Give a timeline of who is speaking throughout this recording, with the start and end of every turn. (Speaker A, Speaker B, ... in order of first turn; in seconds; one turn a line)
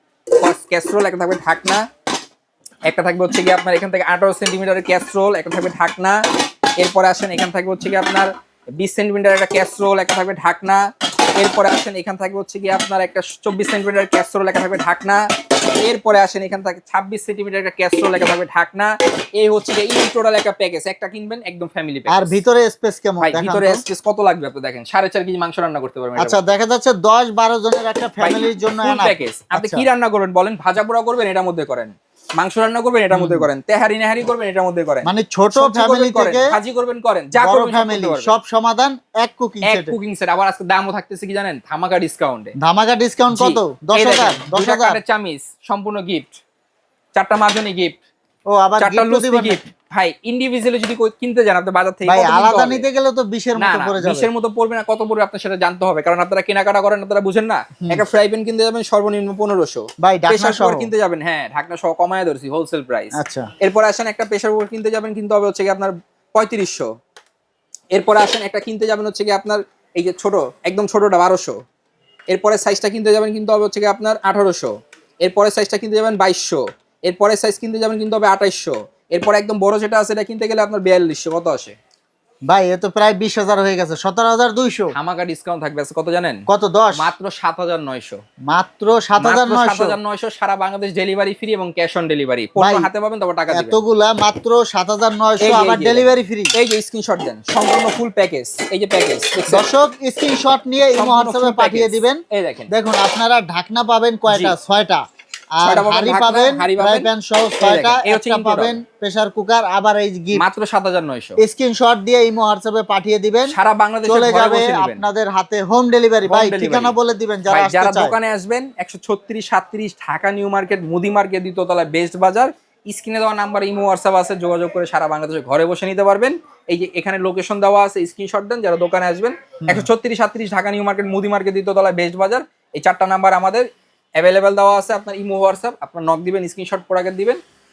Speaker A: 0.4-1.8
Speaker A: 2.9-6.2
Speaker A: 6.8-10.8
Speaker A: 11.4-15.2
Speaker A: 15.8-22.4
Speaker B: 22.1-23.8
Speaker A: 23.2-26.5
Speaker B: 26.2-29.8
Speaker A: 28.2-38.3
Speaker B: 33.1-33.5
Speaker B: 35.0-36.5
Speaker B: 37.3-39.9
Speaker A: 39.6-42.5
Speaker B: 42.6-45.0
Speaker A: 43.3-46.4
Speaker A: 47.1-48.0
Speaker B: 48.5-49.6
Speaker A: 48.8-52.8
Speaker B: 52.1-54.3
Speaker A: 53.6-66.9
Speaker B: 60.0-60.9
Speaker B: 63.2-63.5
Speaker A: 67.9-71.6
Speaker A: 72.3-81.8
Speaker B: 82.5-84.9
Speaker A: 84.9-86.4
Speaker B: 86.5-87.1
Speaker A: 86.9-88.2
Speaker B: 88.5-90.0
Speaker A: 89.2-93.8
Speaker B: 92.6-92.9
Speaker B: 93.5-96.5
Speaker A: 95.4-99.7
Speaker B: 99.5-105.0
Speaker A: 101.0-102.7
Speaker A: 104.3-104.5
Speaker B: 105.6-110.5
Speaker A: 105.6-107.1
Speaker A: 107.6-108.8
Speaker A: 110.3-111.4
Speaker B: 111.4-118.2
Speaker A: 113.5-115.0
Speaker A: 116.3-116.9
Speaker A: 117.5-133.7
Speaker A: 134.2-137.4